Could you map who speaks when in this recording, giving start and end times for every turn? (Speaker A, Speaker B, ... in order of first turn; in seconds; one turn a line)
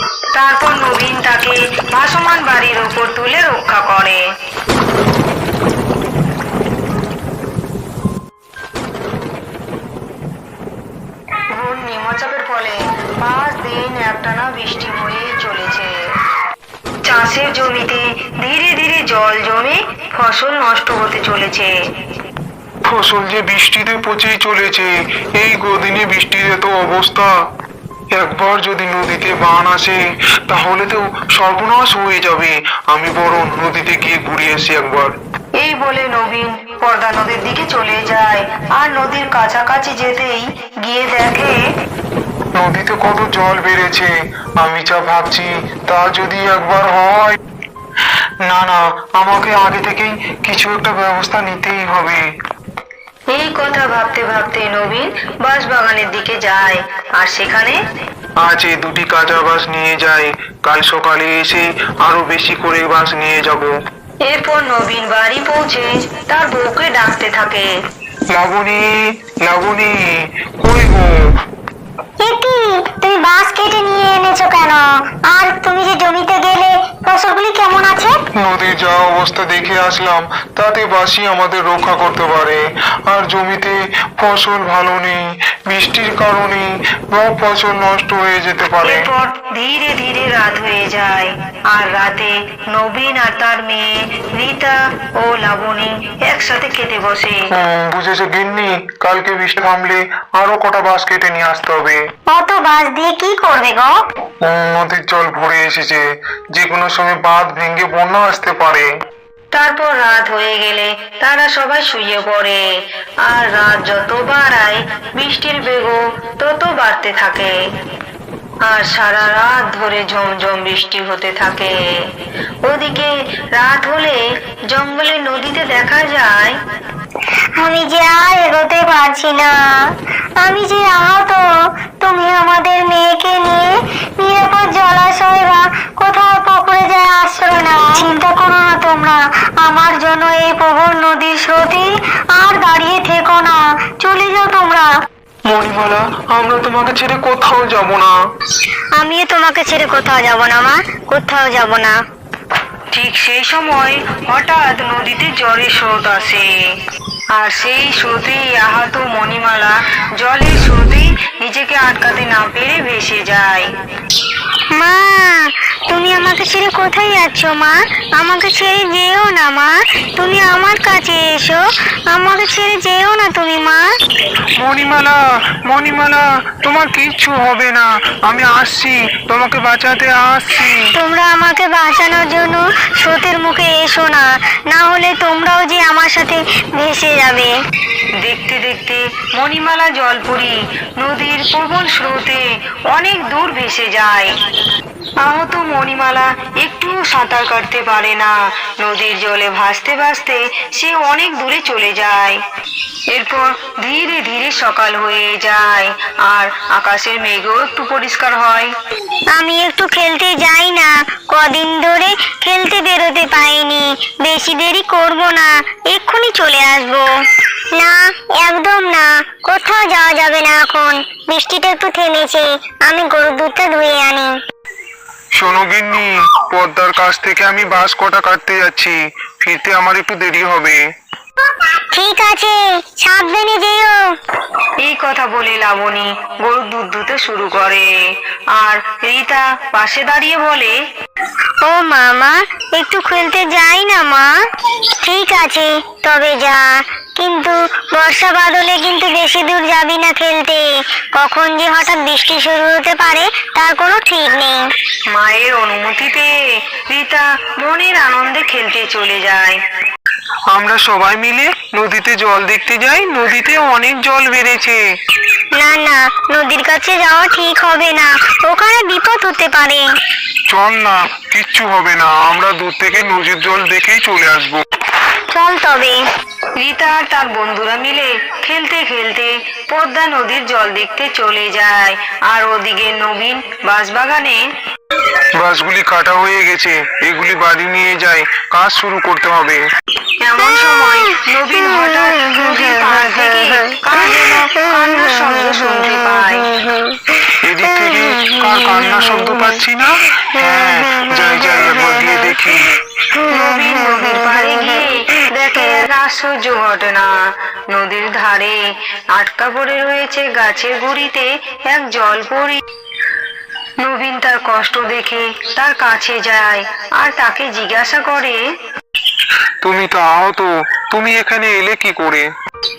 Speaker A: 0.3-4.2
Speaker A: 11.5-16.0
Speaker A: 17.1-21.7
Speaker B: 22.9-27.4
Speaker B: 28.1-35.1
Speaker A: 35.6-41.6
Speaker B: 42.6-47.4
Speaker B: 48.5-52.2
Speaker A: 53.3-57.8
Speaker B: 58.4-63.7
Speaker A: 64.2-67.7
Speaker B: 68.3-71.1
Speaker C: 72.2-78.2
Speaker B: 78.4-89.0
Speaker A: 88.8-97.4
Speaker B: 97.5-102.0
Speaker C: 102.3-104.0
Speaker B: 104.4-108.9
Speaker A: 109.5-112.6
Speaker A: 113.2-117.5
Speaker A: 118.6-121.8
Speaker A: 122.7-126.6
Speaker C: 127.6-131.5
Speaker C: 132.0-138.1
Speaker A: 138.1-139.2
Speaker A: 139.7-141.6
Speaker C: 142.4-144.8
Speaker B: 145.5-148.1
Speaker C: 149.0-152.0
Speaker A: 152.9-156.5
Speaker A: 157.3-163.7
Speaker C: 164.7-173.9
Speaker B: 174.6-180.9
Speaker C: 180.9-187.5
Speaker A: 188.2-194.3
Speaker A: 195.2-202.4
Speaker A: 203.1-208.7
Speaker C: 209.3-217.1
Speaker C: 217.7-224.3
Speaker B: 225.3-230.8
Speaker C: 231.9-234.2
Speaker A: 234.8-237.9
Speaker A: 238.5-240.8
Speaker C: 241.6-244.3
Speaker C: 245.0-246.6
Speaker C: 247.2-254.6
Speaker A: 255.1-256.4
Speaker A: 256.9-259.6
Speaker B: 260.5-264.8
Speaker C: 265.6-269.9
Speaker B: 270.5-274.6
Speaker C: 275.3-276.0
Speaker A: 276.6-284.4
Speaker B: 285.4-289.6
Speaker A: 290.2-296.5
Speaker B: 297.4-302.7
Speaker A: 303.3-308.6
Speaker A: 309.1-312.6
Speaker A: 313.8-318.4
Speaker B: 319.6-322.3